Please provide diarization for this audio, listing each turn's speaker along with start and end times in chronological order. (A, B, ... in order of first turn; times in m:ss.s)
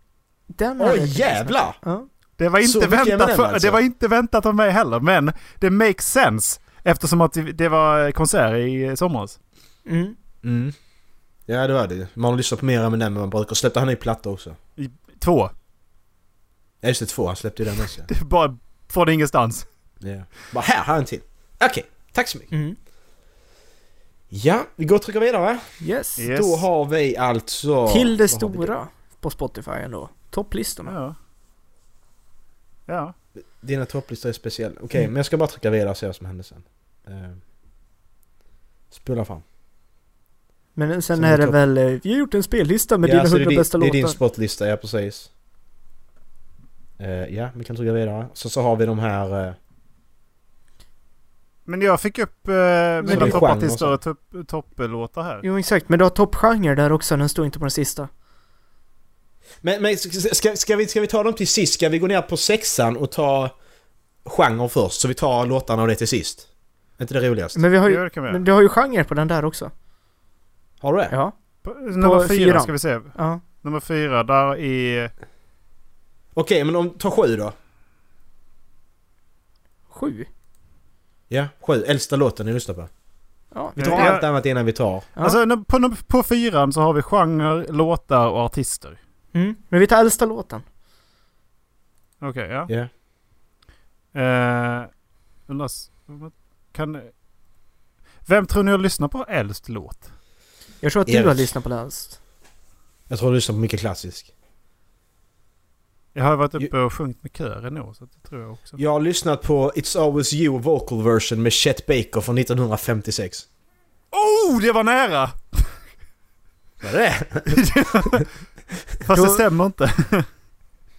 0:00.5-0:02.1 A
0:00.8-0:01.8 B
0:02.4-0:09.4 C
0:02.6-0:03.8 B
0:09.9-0:10.2 A
0:10.4-0:10.7 B
0:11.5-0:14.6 B
0:14.8-0:15.5 C
0:16.8-0:18.1 B
0:18.1-0:19.6 C
0:20.0-0:22.5 B
0:22.5-0:22.8 A
0:24.3-0:25.7 B
0:25.8-0:26.2 A
0:26.2-0:26.6 C
0:26.2-0:28.7 B
0:27.9-0:31.0 A
0:30.9-0:31.2 C
0:32.9-0:33.1 C
0:33.6-0:37.4 B
0:38.9-0:39.4 B
0:40.8-0:44.2 A
0:41.2-0:41.6 B
0:43.0-0:45.3 B
0:47.0-0:49.6 B
0:51.7-0:55.4 C
0:53.0-0:53.5 A
0:53.1-0:54.0 B
0:55.4-0:58.1 A
0:59.6-1:03.5 B
1:04.2-1:06.4 B
1:07.0-1:07.6 B
1:07.6-1:09.7 A
1:07.9-1:08.4 C
1:10.8-1:11.1 B
1:11.1-1:11.4 A
1:11.6-1:15.1 C
1:12.0-1:13.4 A
1:16.4-1:17.6 B
1:19.9-1:20.3 A
1:21.3-1:22.9 B
1:23.5-1:24.2 A
1:23.8-1:25.1 B
1:23.8-1:24.2 C
1:25.2-1:29.0 C
1:29.3-1:30.6 A
1:32.2-1:32.7 C
1:34.1-1:34.9 C
1:35.5-1:37.1 C
1:38.3-1:40.1 C
1:40.8-1:42.2 A
1:41.1-1:41.5 B
1:43.1-1:44.3 B
1:46.2-1:48.8 C
1:48.8-1:53.4 B
1:54.1-1:55.7 C
1:56.8-1:57.7 B
1:57.5-1:58.3 C
1:59.0-2:00.3 C
1:59.1-1:59.4 A